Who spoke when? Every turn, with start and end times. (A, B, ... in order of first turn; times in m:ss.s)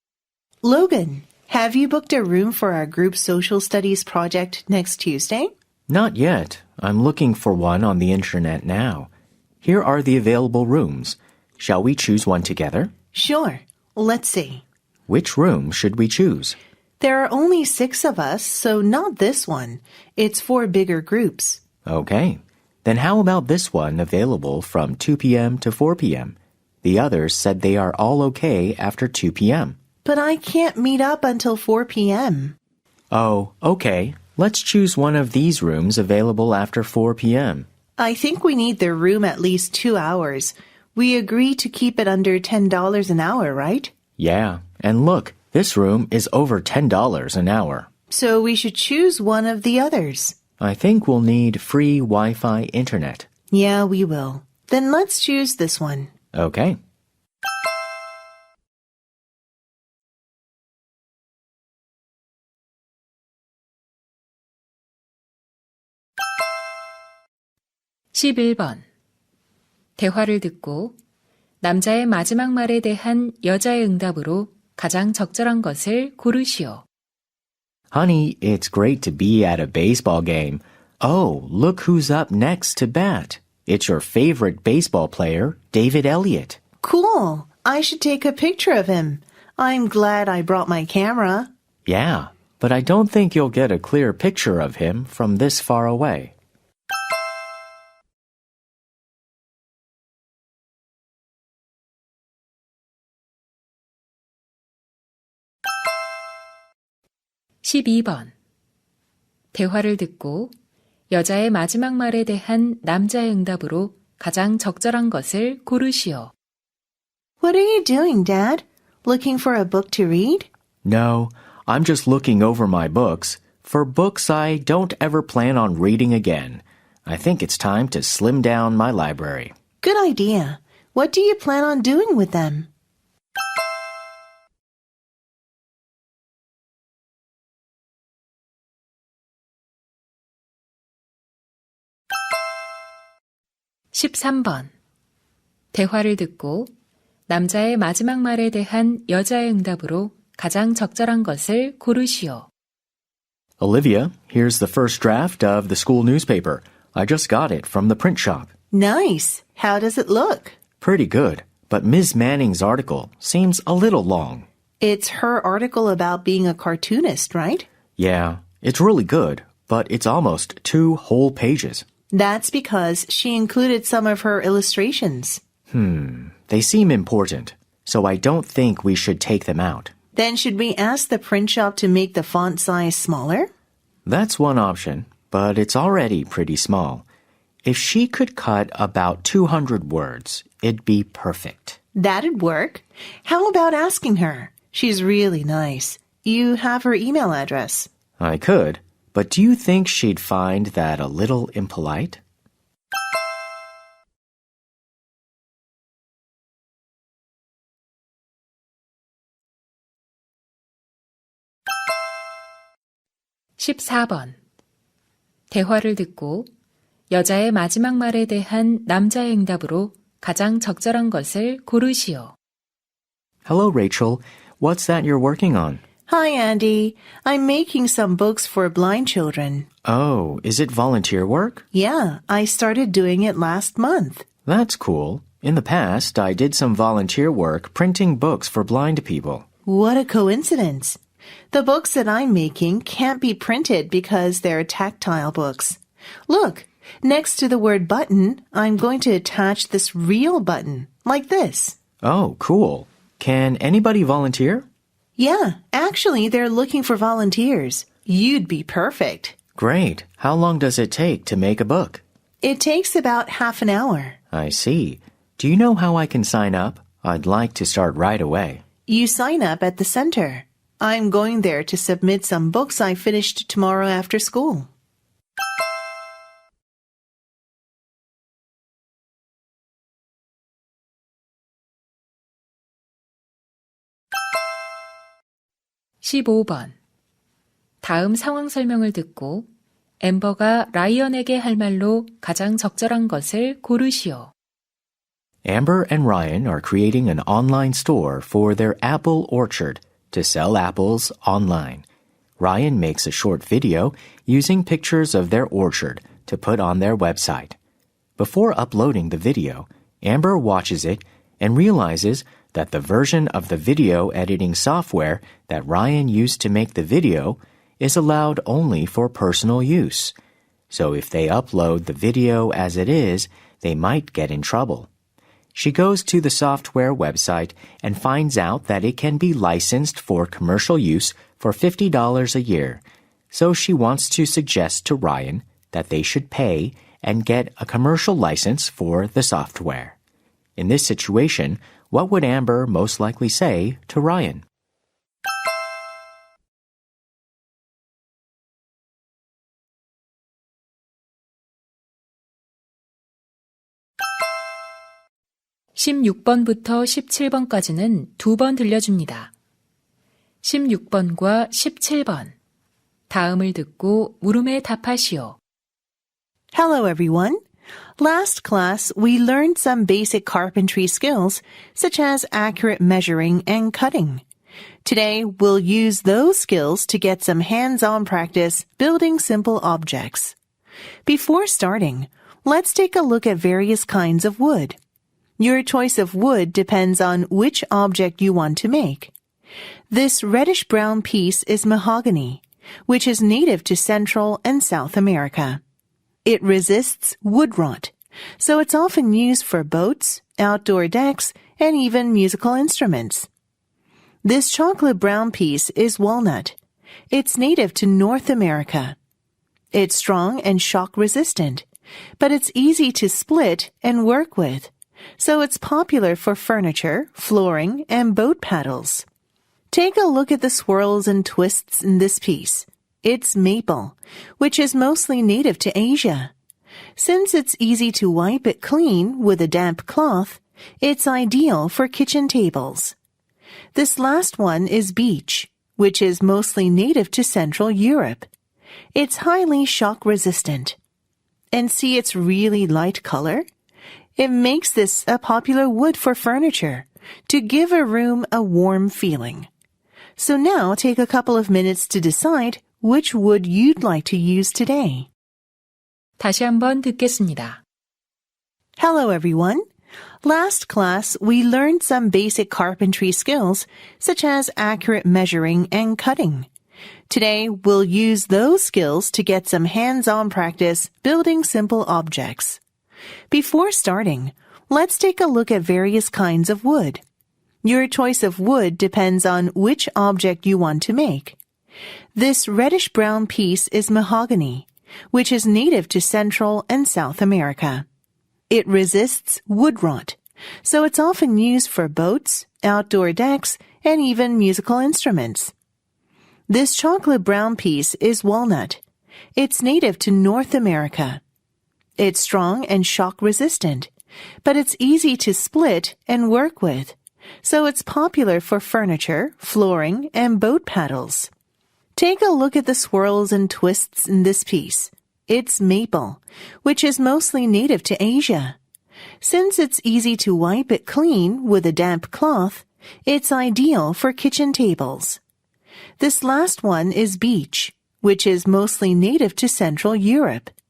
0:00.6-0:05.5 A
0:05.9-0:09.1 B
0:09.6-0:12.9 B
0:13.1-0:14.6 A
0:15.1-0:16.6 B
0:17.0-0:21.6 A
0:21.8-0:29.8 B
0:30.0-0:32.6 A
0:33.1-0:37.7 B
0:38.0-0:43.9 A
0:44.2-0:47.9 B
0:48.1-0:50.4 A
0:50.6-0:53.3 B
0:53.5-0:56.1 A
0:56.3-0:56.8 B
1:08.1-1:08.8 C
1:10.0-1:11.0 C
1:11.6-1:16.8 C
1:17.9-1:26.6 B
1:26.8-1:31.5 A
1:31.9-1:36.3 B
1:47.6-1:48.3 C
1:49.5-1:50.5 C
1:51.1-1:56.3 C
1:57.4-2:00.5 A
2:00.8-2:09.5 B
2:09.8-2:12.7 A
2:23.9-2:24.7 C
2:25.7-2:26.7 C
2:27.3-2:32.5 C
2:33.6-2:38.5 B
2:38.7-2:40.6 A
2:40.8-2:44.5 B
2:44.8-2:47.7 A
2:48.0-2:51.9 B
2:52.1-2:55.4 A
2:55.7-2:59.9 B
3:00.2-3:03.5 A
3:04.1-3:07.0 B
3:07.6-3:11.8 B
3:12.0-3:17.9 A
3:18.2-3:22.2 B
3:33.6-3:34.4 C
3:35.5-3:36.5 C
3:37.1-3:42.4 C
3:43.4-3:45.8 B
3:46.1-3:49.7 A
3:49.8-3:51.6 B
3:51.7-3:54.2 A
3:54.4-3:59.5 B
3:59.7-4:01.0 A
4:01.5-4:11.8 A
4:12.0-4:14.7 B
4:15.2-4:19.4 A
4:19.6-4:22.0 B
4:22.4-4:24.2 A
4:24.3-4:28.6 B
4:28.9-4:34.7 A
4:46.0-4:46.8 C
4:47.8-4:49.5 C
4:50.0-4:54.3 C
4:55.4-5:01.9 B
5:02.4-5:07.6 B
5:08.2-5:20.2 B
5:20.7-5:24.9 B
5:25.6-5:40.0 B
5:40.6-5:44.4 B
5:55.8-5:59.3 C
6:00.4-6:02.4 C
6:03.1-6:05.4 C
6:06.5-6:07.4 A
6:08.0-6:14.2 A
6:14.8-6:20.4 A
6:21.1-6:24.8 A
6:25.4-6:29.1 A
6:29.9-6:35.6 A
6:36.2-6:43.3 A
6:44.2-6:46.6 A
6:47.1-6:49.0 A
6:49.7-6:51.6 A
6:52.2-6:59.0 A
6:59.7-7:06.3 A
7:07.0-7:13.0 A
7:13.7-7:18.3 A
7:19.0-7:20.8 A
7:21.5-7:23.4 A
7:24.2-7:29.5 A
7:30.2-7:35.1 A
7:36.2-7:37.6 C
7:38.8-7:39.6 A
7:40.2-7:46.5 A
7:47.1-7:52.6 A
7:53.3-7:57.0 A
7:57.6-8:01.4 A
8:02.2-8:07.9 A
8:08.5-8:15.5 A
8:16.5-8:18.8 A
8:19.4-8:21.2 A
8:22.0-8:23.9 A
8:24.4-8:31.3 A
8:32.0-8:38.6 A
8:39.2-8:45.2 A
8:46.0-8:50.5 A